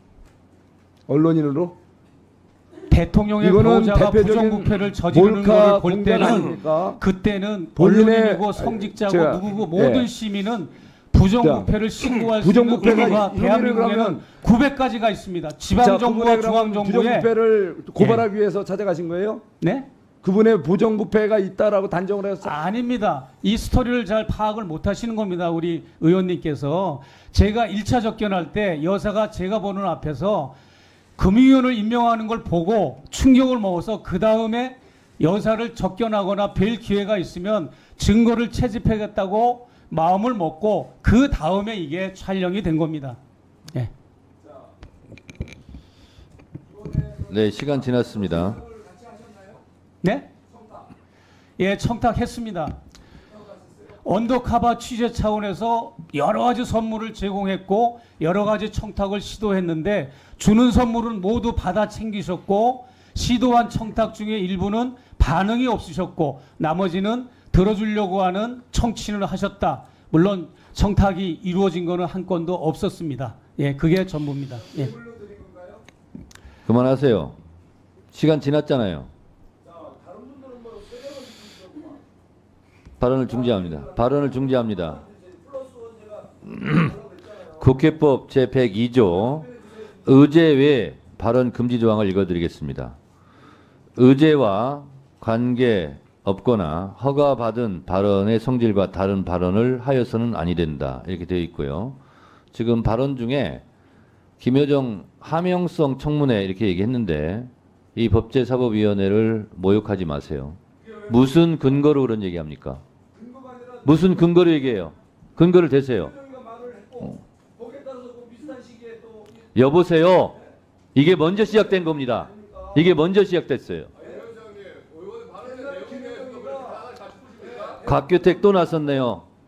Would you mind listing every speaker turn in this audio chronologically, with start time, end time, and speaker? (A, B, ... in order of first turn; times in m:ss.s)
0:01.1-0:01.8 A
0:02.9-0:17.3 B
0:03.4-0:07.0 A
0:07.8-0:10.1 A
0:11.4-0:11.7 A
0:12.2-0:14.3 A
0:15.8-0:19.4 A
0:18.0-0:18.2 B
0:19.6-0:19.9 B
0:20.2-0:22.6 A
0:22.4-0:30.6 B
0:31.2-0:43.2 B
0:46.8-0:47.3 A
0:47.3-0:48.6 C
0:48.7-0:49.5 A
0:50.0-0:50.3 B
0:51.6-0:52.8 B
0:54.0-1:15.0 B
1:15.0-1:15.8 A
1:16.7-1:17.4 C
1:18.1-1:19.1 C
1:19.7-1:22.0 A
1:23.0-1:25.0 C
1:25.1-1:26.4 A
1:26.5-1:27.0 C
1:27.6-1:33.0 C
1:34.0-1:42.0 C
1:42.5-1:43.6 C
1:44.4-1:52.8 C
1:53.1-1:54.0 A
1:53.8-1:56.1 C
1:56.1-1:59.4 A
1:59.6-2:00.4 C
2:00.9-2:03.9 C
2:02.4-2:02.7 A
2:05.3-2:07.8 A
2:07.8-2:09.3 C